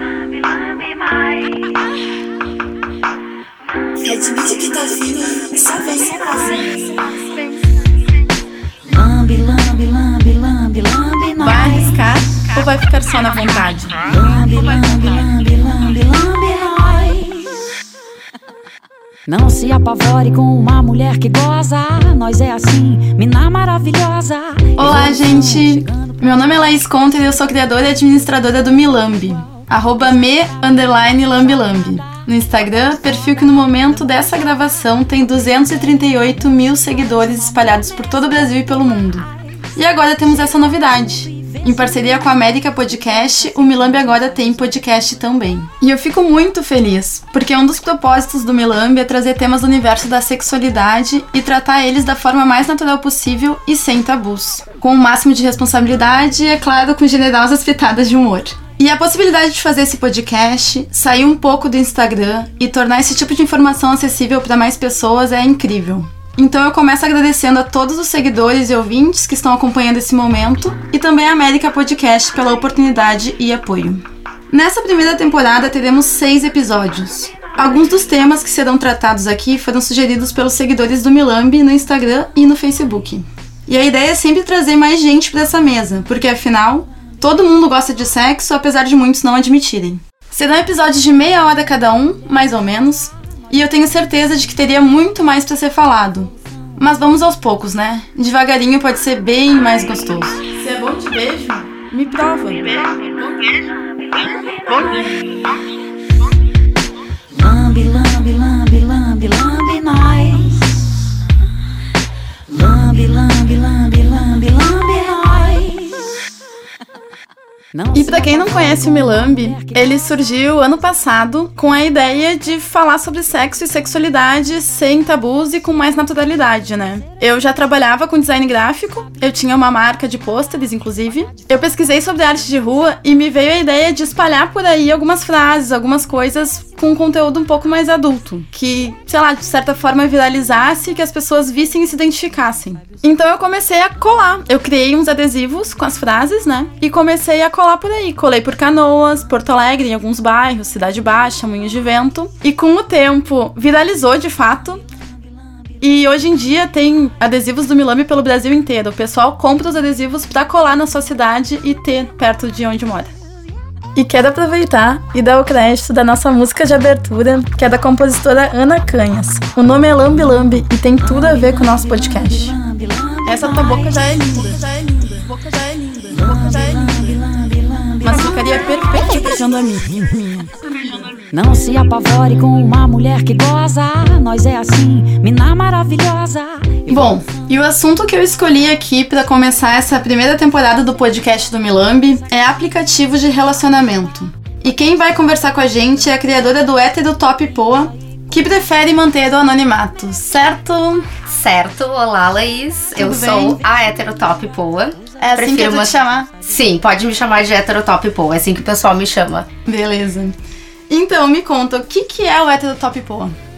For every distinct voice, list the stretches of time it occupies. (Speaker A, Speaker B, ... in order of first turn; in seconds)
Speaker A: 4.0-6.7, 11.4-14.0, 24.8-102.9, 117.9-154.8, 155.8-163.1, 164.0-172.5, 173.3-176.2, 178.0-180.5, 186.9-201.1, 203.0-203.6, 205.2-206.3, 209.7-210.4, 210.9-213.3
Speaker B: 8.9-12.1, 14.0-17.6, 19.3-26.0, 104.6-105.1, 107.3-110.8, 112.5-116.1, 117.7-120.0, 171.0-175.1, 176.1-178.8, 181.3-187.2
Speaker C: 201.3-209.5